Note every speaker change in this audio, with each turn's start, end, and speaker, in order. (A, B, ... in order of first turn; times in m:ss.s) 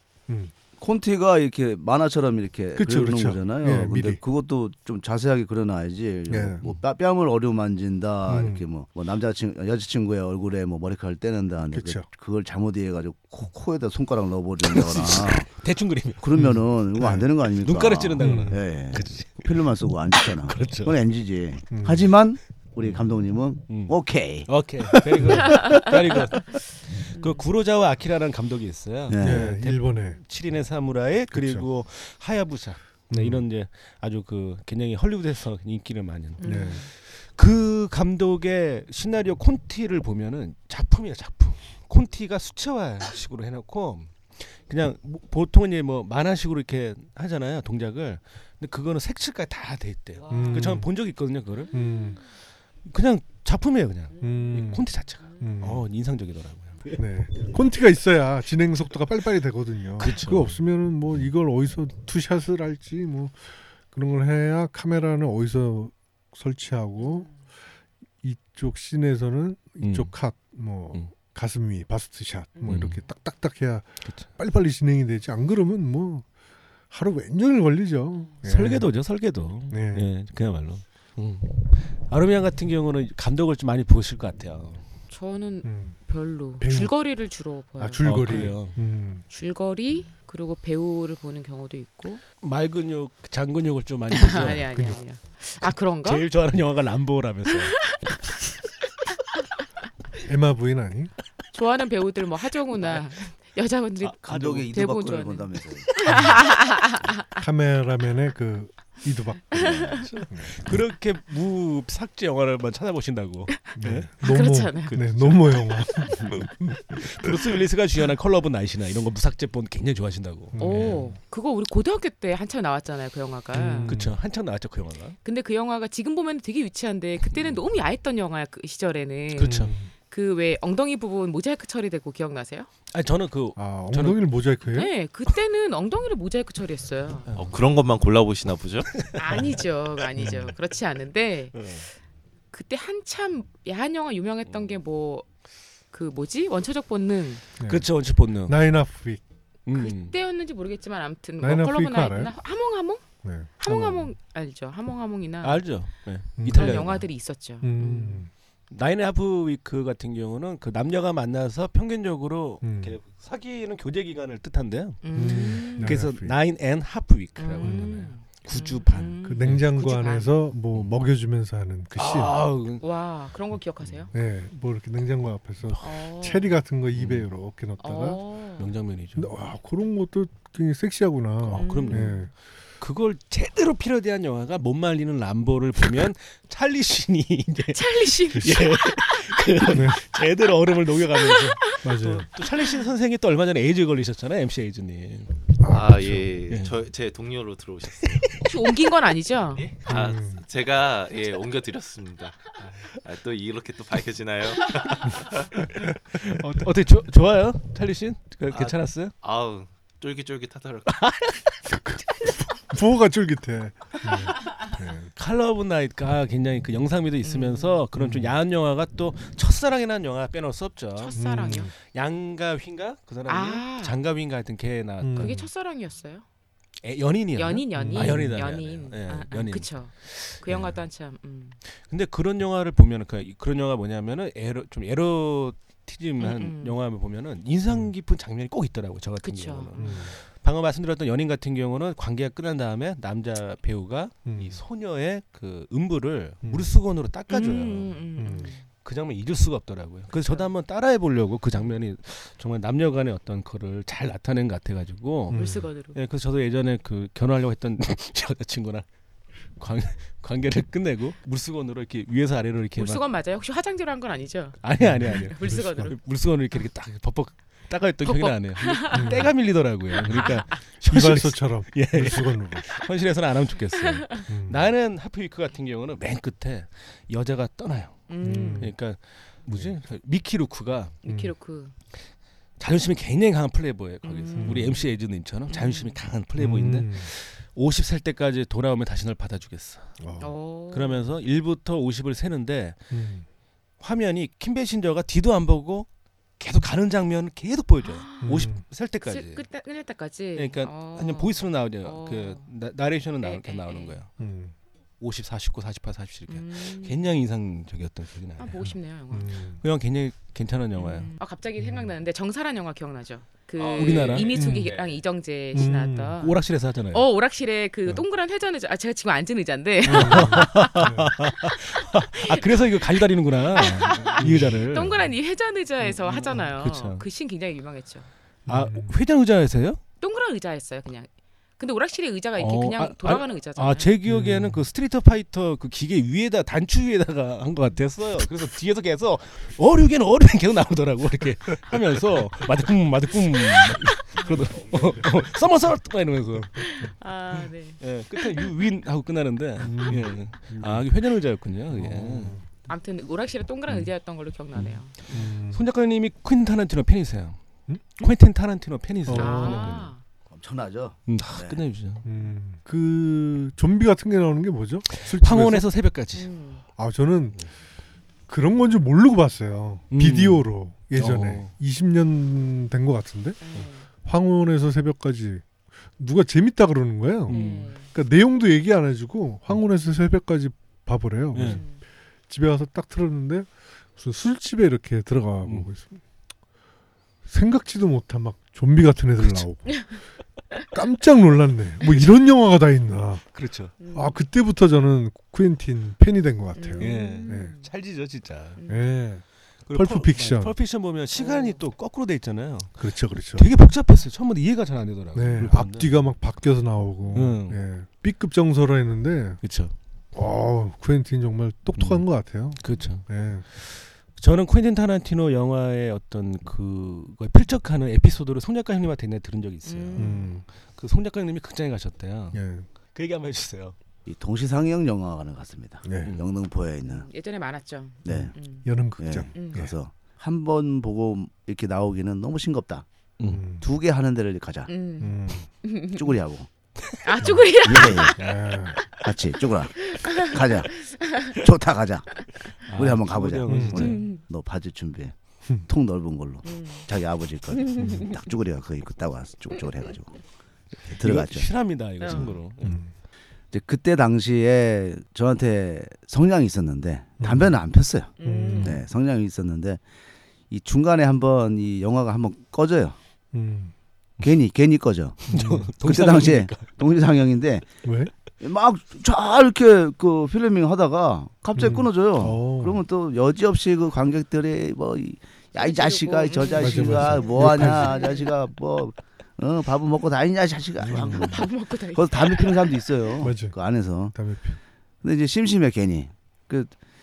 0:00.3-0:00.5 A
0:00.8-0:15.5 B
0:02.8-0:04.2 A
0:06.3-0:06.6 A
0:08.2-0:08.6 A
0:11.7-0:12.1 A
0:14.6-0:16.5 C
0:16.2-0:25.3 B
0:16.4-0:17.3 A
0:17.0-0:21.0 C
0:18.2-0:18.6 A
0:21.7-0:22.1 A
0:22.8-0:23.1 C
0:23.7-0:51.7 C
0:25.1-0:25.8 A
0:25.5-0:25.9 D
0:27.1-0:27.4 D
0:29.1-0:29.5 B
0:29.2-0:30.2 A
0:31.3-0:31.7 A
0:33.1-0:33.4 A
0:36.4-0:36.9 D
0:36.4-0:36.8 A
0:50.2-0:50.8 D
0:50.3-0:50.9 A
0:51.7-0:52.2 A
0:51.7-0:52.2 D
0:52.8-0:57.0 C
0:54.2-0:54.8 A
0:55.4-0:55.8 A
0:56.9-1:07.3 A
1:00.0-1:00.6 C
1:07.0-1:07.3 D
1:08.2-1:16.3 A
1:09.8-1:10.1 C
1:12.6-1:13.0 C
1:16.9-1:18.9 A
1:18.4-1:24.9 C
1:19.7-1:20.1 A
1:25.1-1:28.5 D
1:25.6-1:26.0 A
1:26.6-1:26.9 A
1:27.8-1:29.2 A
1:28.0-1:28.8 C
1:29.3-1:32.2 D
1:32.4-1:34.6 C
1:34.1-1:36.2 D
1:34.3-1:35.0 A
1:36.0-1:38.0 C
1:37.8-1:38.2 D
1:40.2-1:41.1 A
1:41.5-1:44.2 D
1:44.0-1:44.7 C
1:44.2-1:45.9 B
1:44.7-1:47.2 D
1:46.1-1:46.4 A
1:47.4-1:50.7 A
1:49.6-1:50.1 D
1:49.6-1:49.9 B
1:50.1-1:54.1 C
1:53.8-1:57.3 A
1:54.2-1:54.9 D
1:54.9-2:01.0 C
2:00.6-2:01.1 A
2:00.6-2:03.9 D
2:03.5-2:04.2 A
2:03.9-2:05.2 C
2:05.2-2:12.7 D
2:07.3-2:07.6 C
2:09.4-2:09.7 C
2:09.4-2:09.9 A
2:12.9-2:14.2 C
2:13.6-2:14.9 A
2:14.7-2:17.3 D
2:17.3-2:17.6 C
2:17.3-2:18.9 E
2:18.9-2:19.2 C
2:19.2-2:21.7 D
2:20.2-2:20.5 A
2:21.5-2:21.8 C
2:22.5-2:25.3 D
2:25.9-2:27.4 D
2:27.6-2:27.9 A
2:27.7-2:28.6 C
2:28.4-2:29.2 A
2:29.7-2:30.2 C
2:29.7-2:33.0 D
2:31.4-2:32.3 A
2:33.2-2:33.5 A
2:33.6-2:35.6 D
2:33.6-2:34.1 C
2:35.4-2:37.0 C
2:36.4-2:36.9 A
2:36.5-2:38.2 D
2:37.6-2:38.3 A
2:38.7-2:49.6 C
2:42.6-2:43.0 A
2:45.0-2:46.0 D
2:45.1-2:46.4 A
2:47.4-2:50.3 D
2:47.6-2:48.0 A
2:49.2-2:52.3 A
2:52.0-2:52.8 C
2:52.8-2:54.1 D
2:54.1-2:58.2 A
2:55.8-2:56.5 D
2:56.9-2:57.3 C
2:57.8-2:58.7 D
2:58.6-2:59.3 C
2:59.2-3:02.3 A
3:01.4-3:02.2 C
3:01.6-3:02.3 D
3:02.8-3:15.5 C
3:07.7-3:09.4 D
3:08.3-3:08.7 A
3:09.7-3:10.0 A
3:11.2-3:11.8 D
3:11.8-3:12.3 A
3:15.6-3:16.3 A
3:15.7-3:18.3 E
3:18.0-3:18.6 C
3:18.4-3:19.7 D
3:19.6-3:25.7 E
3:19.9-3:20.4 A
3:26.2-3:29.1 C
3:28.5-3:30.9 E
3:30.9-3:31.6 C
3:31.7-3:35.1 A
3:35.2-3:45.5 C
3:37.2-3:37.8 D
3:38.0-3:38.4 A
3:41.0-3:41.7 D
3:41.2-3:41.7 A
3:43.3-3:44.0 D
3:45.0-3:45.4 A
3:45.2-3:46.2 D
3:46.8-3:50.6 C
3:47.3-3:51.6 D
3:47.7-3:48.4 A
3:51.9-4:07.9 C
3:56.2-3:56.8 D
3:59.2-4:00.0 D
3:59.8-4:00.1 A
4:04.3-4:04.6 A
4:06.4-4:06.8 A
4:07.3-4:08.6 D
4:08.2-4:08.5 A
4:08.8-4:18.8 C
4:10.1-4:10.5 D
4:15.3-4:15.6 A
4:15.3-4:16.0 D
4:19.6-4:23.0 C
4:22.8-4:25.9 D
4:24.6-4:38.1 C
4:24.8-4:25.9 A
4:28.0-4:29.3 D
4:28.9-4:29.3 A
4:30.0-4:30.5 D
4:30.8-4:32.7 A
4:34.3-4:34.7 A
4:38.1-4:38.7 D
4:38.2-4:38.7 A
4:38.6-4:40.9 C
4:41.0-4:41.7 D
4:41.1-4:41.3 A
4:42.6-4:49.9 C
4:44.0-4:44.9 D
4:44.4-4:44.7 A
4:45.5-4:46.0 D
4:46.4-4:47.1 A
4:50.0-4:50.3 A
4:50.2-4:51.1 D
4:50.7-4:52.8 C
4:52.9-4:53.3 A
4:53.8-4:55.9 C
4:56.4-4:59.4 C
4:57.8-4:58.4 D
4:58.2-4:58.6 A
4:59.0-5:02.4 D
5:00.3-5:04.1 C
5:03.2-5:04.0 D
5:04.2-5:04.5 A
5:05.0-5:08.6 C
5:06.3-5:07.0 D
5:08.4-5:09.3 D
5:08.6-5:09.6 A
5:09.6-5:11.1 C
5:10.8-5:16.4 D
5:11.6-5:11.9 A
5:13.6-5:15.0 E
5:13.8-5:14.3 C
5:14.3-5:14.7 A
5:15.5-5:16.2 A
5:15.5-5:17.0 C
5:16.9-5:20.8 D
5:19.8-5:25.1 C
5:19.9-5:21.2 A
5:22.1-5:22.9 D
5:23.5-5:28.1 D
5:24.2-5:24.6 A
5:25.8-5:27.0 C
5:28.4-5:28.9 A
5:28.5-5:29.8 C
5:30.0-5:31.1 D
5:31.6-5:33.9 D
5:32.4-5:46.7 C
5:34.0-5:34.6 A
5:44.8-5:45.1 A
5:46.6-5:48.5 D
5:47.8-5:52.4 C
5:49.6-5:50.9 A
5:51.7-5:52.4 A
5:52.7-5:54.9 D
5:54.6-5:57.4 C
5:55.1-5:55.6 A
5:58.0-5:59.9 C
5:59.1-5:59.8 A
5:59.2-6:00.0 D
6:00.3-6:01.6 B
6:01.1-6:02.1 C
6:02.0-6:05.7 A
6:05.0-6:06.3 C
6:06.2-6:06.6 D
6:06.8-6:07.4 A
6:08.3-6:15.4 A
6:09.9-6:11.5 C
6:13.4-6:13.8 D
6:16.0-6:21.6 A
6:17.3-6:17.7 C
6:17.3-6:17.9 D
6:21.3-6:21.6 C
6:21.4-6:21.8 D
6:22.3-6:26.0 A
6:27.3-6:30.0 A
6:30.7-6:33.3 A
6:33.3-6:33.7 C
6:33.8-6:34.2 D
6:33.9-6:37.5 A
6:36.6-6:37.7 D
6:36.8-6:38.6 C
6:38.6-6:38.9 D
6:38.7-6:40.6 A
6:39.7-6:42.8 C
6:41.2-6:41.6 D
6:42.8-6:43.5 A
6:43.3-6:45.9 C
6:45.2-6:49.4 A
6:47.1-6:47.6 C
6:49.4-6:49.7 C
6:50.1-6:53.4 A
6:51.8-6:52.0 C
6:52.6-7:02.4 C
6:59.6-7:00.4 D
7:00.0-7:00.4 A
7:02.3-7:02.7 A
7:02.9-7:03.7 C
7:04.1-7:07.1 B
7:05.8-7:06.2 A
7:06.0-7:06.3 C
7:06.8-7:08.7 D
7:08.0-7:08.3 B
7:08.1-7:09.7 A
7:09.0-7:12.8 B
7:09.3-7:09.6 D
7:13.2-7:13.4 C
7:13.2-7:13.6 A
7:13.6-7:14.7 B
7:14.7-7:16.1 D
7:15.0-7:15.5 A
7:15.9-7:16.5 B
7:17.0-7:19.0 D
7:17.2-7:17.5 A
7:17.6-7:18.2 B
7:18.1-7:18.8 A
7:19.0-7:25.1 B
7:19.8-7:21.4 D
7:22.6-7:24.0 C
7:23.4-7:24.0 A
7:23.8-7:24.2 D
7:25.7-7:30.1 B
7:26.4-7:26.9 D
7:27.5-7:28.2 D
7:27.8-7:28.1 A
7:30.9-7:31.5 B
7:31.0-7:32.8 C
7:32.0-7:32.3 D
7:32.6-7:32.9 A
7:33.5-7:39.8 B
7:37.2-7:37.6 A
7:38.2-7:38.8 D
7:38.2-7:38.8 A
7:40.5-7:43.0 B
7:43.3-7:43.7 A
7:44.2-7:45.2 B
7:45.3-7:46.7 C
7:45.3-7:45.7 A
7:45.8-7:47.7 B
7:47.8-7:48.1 A
7:48.4-8:04.2 B
7:51.6-7:52.8 A
7:55.5-7:58.3 D
7:56.6-7:58.1 A
8:00.8-8:01.3 A
8:00.9-8:01.3 C
8:01.1-8:02.9 D
8:03.2-8:03.6 A
8:04.1-8:04.6 A
8:05.0-8:06.7 B